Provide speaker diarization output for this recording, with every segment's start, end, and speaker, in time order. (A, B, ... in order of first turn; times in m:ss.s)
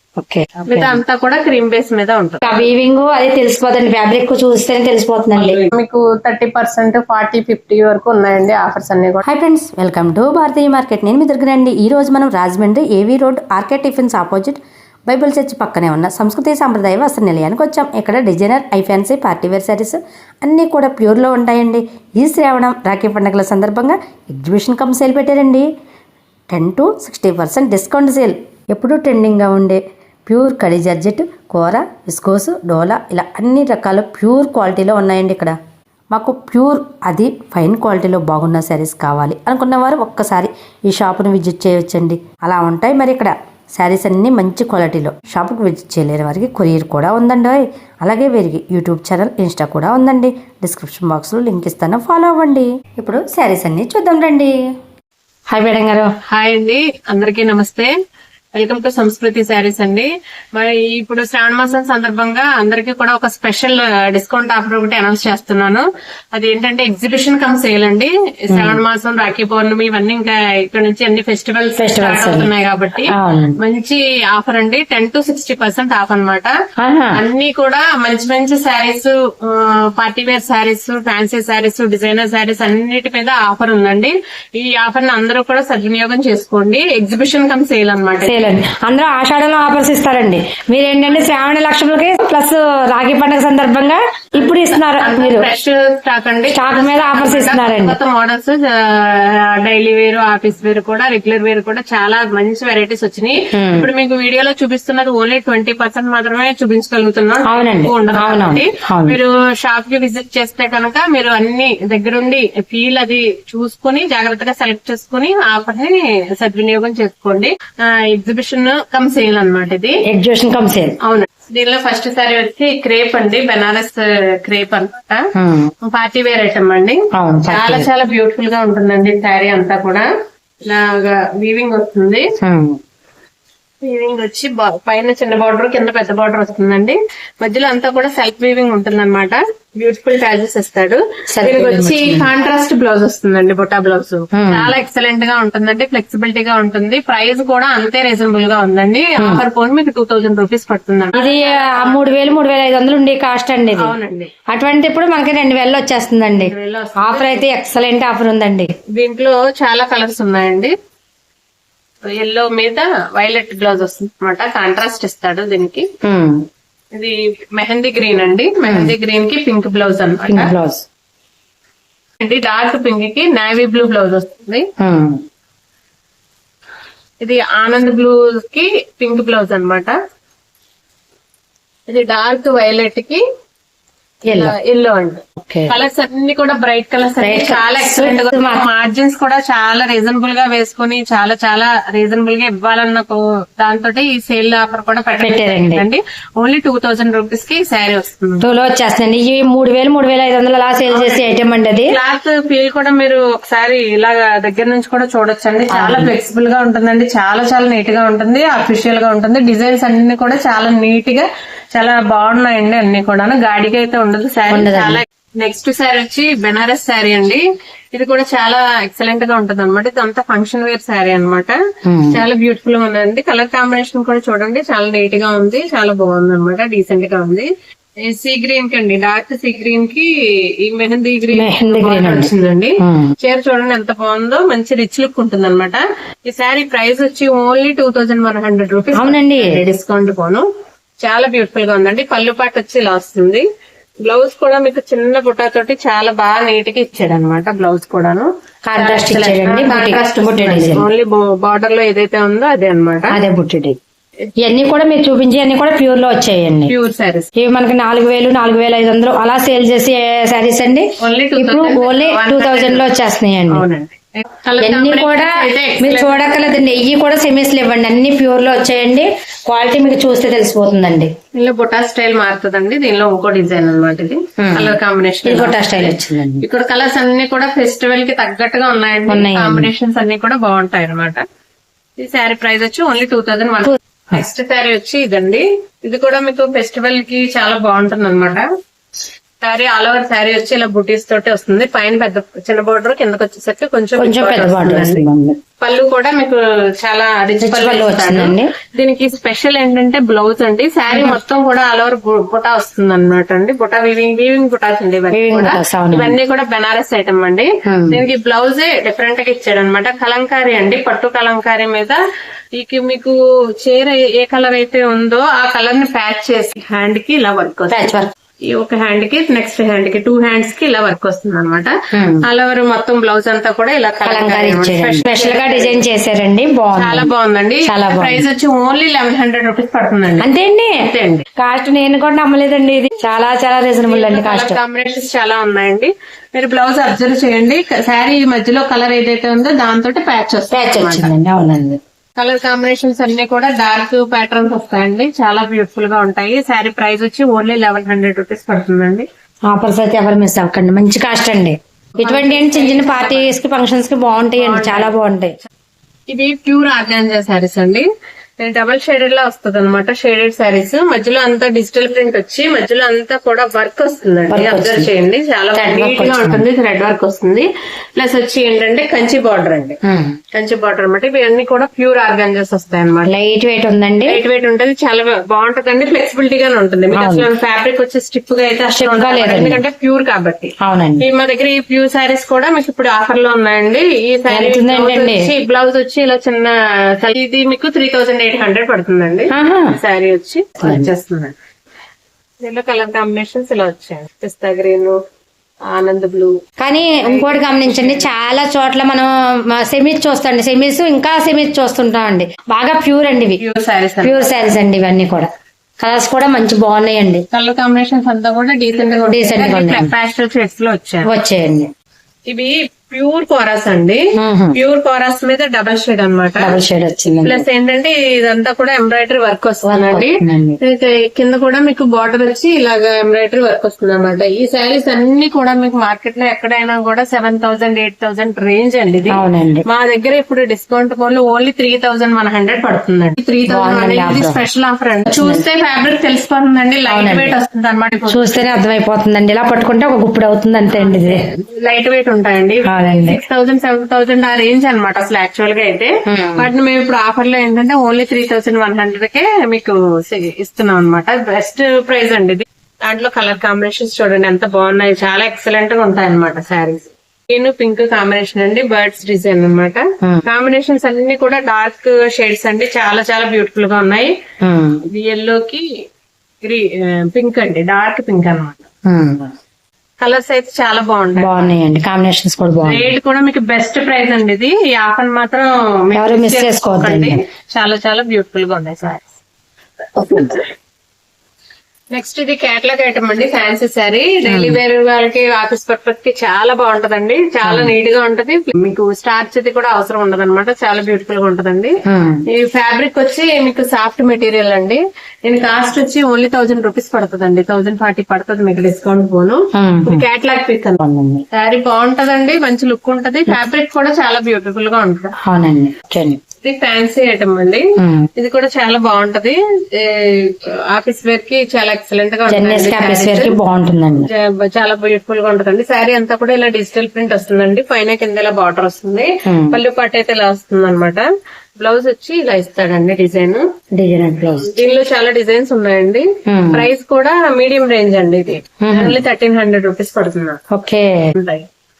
0:00.2-0:01.0 A
0:00.7-0:02.7 B
0:02.4-0:05.6 A
0:05.4-0:09.2 B
0:09.3-0:25.7 A
0:26.5-0:35.6 A
0:36.1-0:54.5 A
0:55.5-0:56.1 A
0:56.3-0:57.9 B
0:58.6-1:16.5 B
1:08.5-1:08.8 A
1:11.8-1:12.5 A
1:13.1-1:13.6 A
1:16.8-1:17.2 A
1:17.2-1:28.4 B
1:28.2-1:35.5 A
1:31.1-1:31.4 B
1:34.4-2:00.0 B
1:36.5-1:38.0 A
1:43.5-1:43.9 A
1:47.5-1:49.2 A
2:00.1-2:01.0 A
2:01.0-2:05.2 B
2:05.4-2:05.7 A
2:05.8-2:10.1 B
2:07.2-2:07.9 A
2:10.7-2:12.2 B
2:12.4-2:12.8 A
2:13.8-2:32.4 B
2:21.3-2:22.3 A
2:24.3-2:24.7 A
2:29.2-2:29.4 A
2:31.2-2:33.9 A
2:33.8-2:34.3 B
2:34.5-2:38.7 A
2:36.4-2:37.5 B
2:39.0-2:40.7 B
2:42.1-2:45.9 B
2:46.0-2:46.4 A
2:46.9-2:50.5 B
2:48.7-2:48.9 A
2:50.3-2:50.8 A
2:52.2-2:54.6 B
2:54.8-2:55.2 A
2:57.2-3:00.0 B
3:01.9-3:03.2 B
3:04.3-3:04.5 A
3:04.3-3:18.4 B
3:05.4-3:05.8 A
3:07.2-3:08.6 A
3:15.2-3:15.8 A
3:18.4-3:22.0 A
3:20.9-3:37.4 B
3:25.7-3:26.1 A
3:34.5-3:35.0 A
3:37.9-3:41.6 B
3:41.9-3:42.2 A
3:42.1-3:47.5 B
3:48.1-3:50.1 B
3:50.6-4:00.4 B
3:51.3-3:52.3 A
3:52.8-3:53.1 A
3:59.0-3:59.6 A
4:01.0-4:03.4 B
4:04.1-4:13.2 B
4:08.6-4:10.9 A
4:13.1-4:13.8 A
4:14.4-4:16.7 A
4:16.7-4:17.3 B
4:17.4-4:23.6 A
4:21.0-4:22.9 B
4:23.5-4:26.4 B
4:24.6-4:31.1 A
4:31.4-4:41.2 B
4:34.4-4:36.4 A
4:39.1-4:39.7 A
4:42.0-4:48.4 B
4:43.7-4:44.2 A
4:49.4-4:55.0 B
4:54.0-4:55.4 A
4:55.6-5:12.0 B
4:57.4-4:58.5 A
5:00.9-5:01.2 A
5:05.1-5:06.2 A
5:07.7-5:08.0 A
5:12.6-5:17.9 B
5:17.7-5:18.1 A
5:18.5-5:25.8 B
5:21.9-5:22.2 A
5:24.0-5:27.1 A
5:26.8-5:30.3 B
5:27.7-5:28.2 A
5:30.2-5:30.8 A
5:30.8-5:31.3 B
5:31.4-5:34.6 A
5:33.9-5:41.1 B
5:40.5-5:41.8 A
5:42.2-5:49.1 B
5:49.5-5:55.4 A
5:52.0-5:53.4 B
5:54.4-5:54.9 B
5:56.1-5:57.9 B
5:58.4-6:09.8 B
6:04.3-6:04.9 A
6:05.5-6:06.4 A
6:09.8-6:10.1 A
6:10.3-6:13.1 B
6:13.1-6:14.2 A
6:14.1-6:31.4 B
6:17.0-6:17.3 A
6:18.7-6:19.6 A
6:20.6-6:21.0 A
6:24.3-6:25.3 A
6:29.3-6:29.8 A
6:30.6-6:30.9 A
6:32.4-6:35.0 B
6:35.7-6:36.3 B
6:36.6-6:43.4 A
6:37.0-6:38.1 B
6:43.4-6:44.6 B
6:44.0-6:47.2 A
6:47.3-6:51.1 B
6:49.1-6:49.9 A
6:51.1-6:51.7 A
6:52.3-6:54.0 B
6:54.2-6:54.6 A
6:54.5-6:56.6 B
6:56.4-6:57.4 A
6:57.2-7:18.5 B
6:59.6-7:00.6 A
7:09.1-7:09.6 A
7:13.5-7:14.4 A
7:15.1-7:15.4 A
7:16.9-7:17.3 A
7:18.1-7:21.2 A
7:20.7-7:44.1 B
7:22.7-7:23.2 A
7:26.1-7:26.5 A
7:44.4-7:44.8 A
7:44.9-7:45.6 B
7:46.4-7:48.7 B
7:48.9-7:49.3 A
7:50.0-7:51.6 B
7:51.2-7:52.9 A
7:52.6-7:59.1 B
7:56.0-7:57.2 A
8:00.0-8:00.4 A
8:00.1-8:00.4 B
8:01.9-8:11.7 B
8:04.3-8:04.6 A
8:07.4-8:07.7 A
8:11.9-8:12.2 A
8:12.3-8:20.8 B
8:19.6-8:20.0 A
8:20.8-8:21.2 A
8:21.3-8:25.1 B
8:25.2-8:26.2 A
8:26.4-8:27.6 B
8:27.8-8:28.1 A
8:28.2-8:33.3 B
8:32.3-8:34.1 A
8:34.0-8:41.1 B
8:39.3-8:39.6 A
8:41.6-8:43.4 B
8:43.8-8:44.5 A
8:44.4-8:50.4 B
8:46.3-8:46.7 A
8:48.6-8:49.0 A
8:50.5-8:51.1 A
8:51.2-8:51.4 B